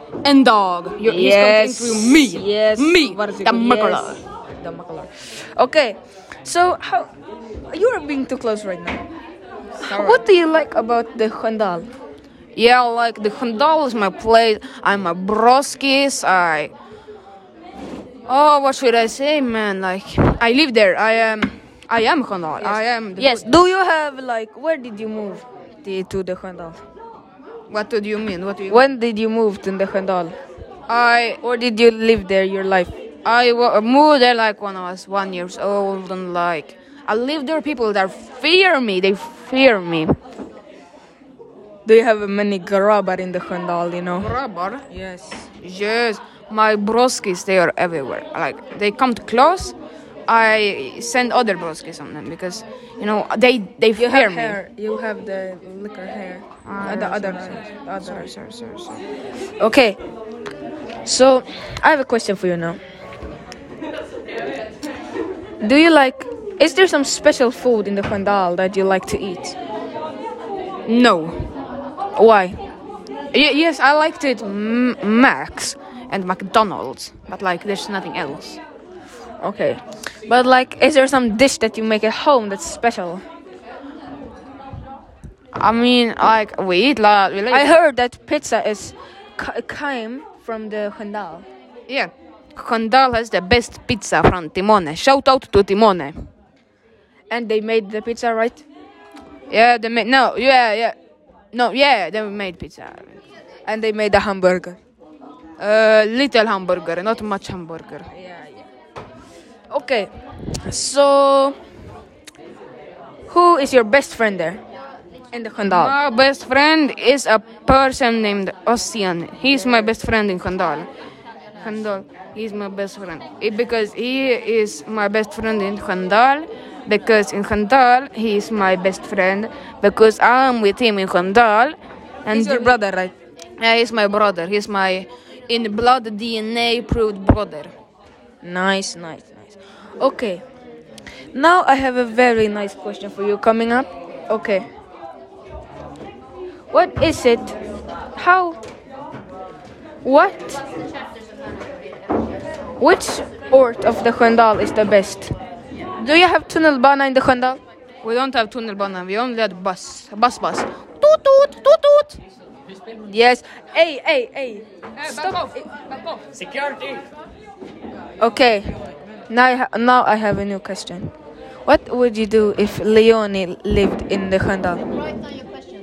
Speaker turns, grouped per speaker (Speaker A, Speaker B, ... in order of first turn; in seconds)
Speaker A: 0.2-4.2, 9.8-10.3, 12.6-16.7, 18.3-23.6, 27.7-28.9, 30.9-31.4, 33.2-40.1, 44.2-44.9, 45.6-49.8, 50.3-54.6, 56.6-59.0, 70.9-71.5, 73.3-78.6, 85.6-87.8, 91.9-96.3, 99.5-101.0, 101.5-103.2, 105.6-108.1, 115.6-120.9, 121.6-132.8, 133.6-137.7, 158.0-162.2, 165.0-166.4
Speaker B: 1.0-7.1, 7.7-9.0, 9.8-11.9, 22.6-26.8, 28.7-30.4, 31.4-32.9, 41.9-44.3, 44.9-45.5, 54.0-58.3, 59.6-60.0, 61.0-62.8, 65.6-69.6, 72.2-72.6, 79.4-83.2, 87.5-91.5, 97.3-98.7, 103.7-104.8, 108.1-108.7, 109.7-111.6, 113.3-114.6, 115.3-116.0, 132.3-133.1, 138.4-140.4, 141.3-144.7, 146.7-147.6, 148.2-148.6, 150.0-150.6, 152.8-155.3, 156.0-157.6, 163.1-165.7, 168.2-168.8, 169.3-171.1, 171.7-174.9